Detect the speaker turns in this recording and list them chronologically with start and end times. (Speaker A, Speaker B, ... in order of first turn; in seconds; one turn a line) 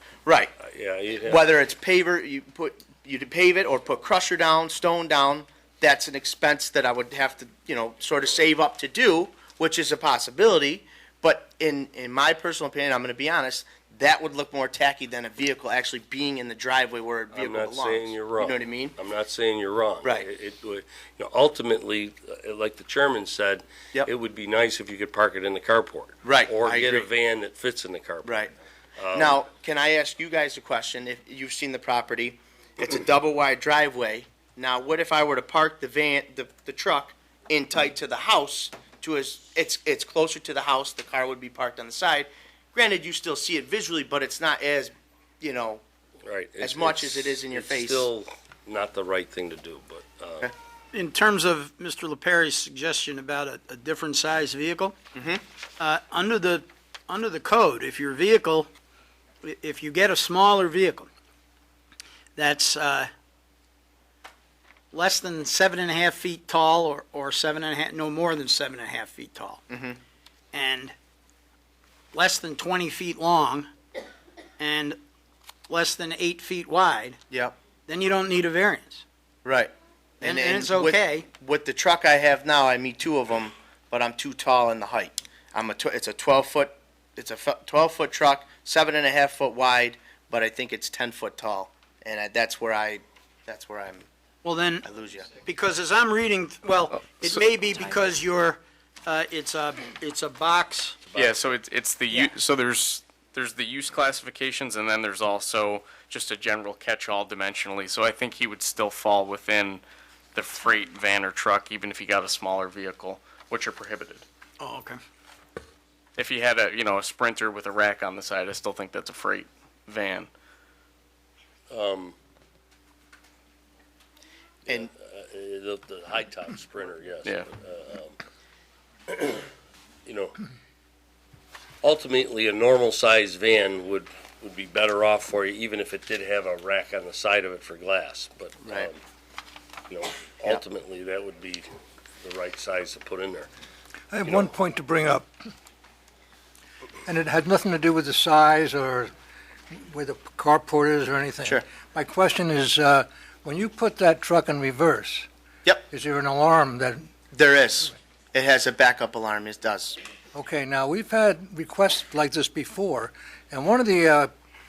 Speaker A: 0.3-0.5
Speaker B: 0.6-1.5
Speaker A: 1.3-19.0
Speaker B: 17.3-28.4
Speaker A: 20.0-20.3
Speaker A: 26.2-27.1
Speaker A: 28.2-28.5
Speaker B: 29.0-29.4
Speaker A: 29.1-45.8
Speaker B: 46.2-50.5
Speaker A: 46.6-48.1
Speaker C: 50.9-55.0
Speaker A: 55.1-55.4
Speaker C: 55.8-58.7
Speaker C: 59.4-61.1
Speaker C: 62.4-63.1
Speaker C: 64.9-69.6
Speaker A: 69.7-70.0
Speaker C: 70.5-70.9
Speaker C: 72.1-73.7
Speaker C: 74.6-75.0
Speaker C: 75.7-77.2
Speaker A: 77.3-77.5
Speaker C: 77.9-79.0
Speaker A: 79.5-94.1
Speaker C: 80.2-81.3
Speaker C: 94.4-94.8
Speaker A: 94.8-95.3
Speaker C: 95.4-101.0
Speaker B: 101.1-101.5
Speaker D: 101.2-109.8
Speaker D: 110.3-114.2
Speaker C: 114.6-115.0
Speaker D: 116.2-120.3
Speaker B: 121.7-122.2
Speaker B: 124.7-128.2
Speaker B: 129.1-129.5
Speaker B: 130.1-130.4
Speaker B: 131.8-139.0
Speaker A: 138.6-138.9
Speaker B: 139.9-141.7
Speaker B: 142.2-143.5
Speaker E: 144.1-145.3
Speaker B: 144.3-144.5
Speaker E: 147.1-149.1
Speaker E: 149.7-155.3
Speaker E: 155.9-157.1
Speaker A: 157.3-160.0
Speaker E: 160.3-164.3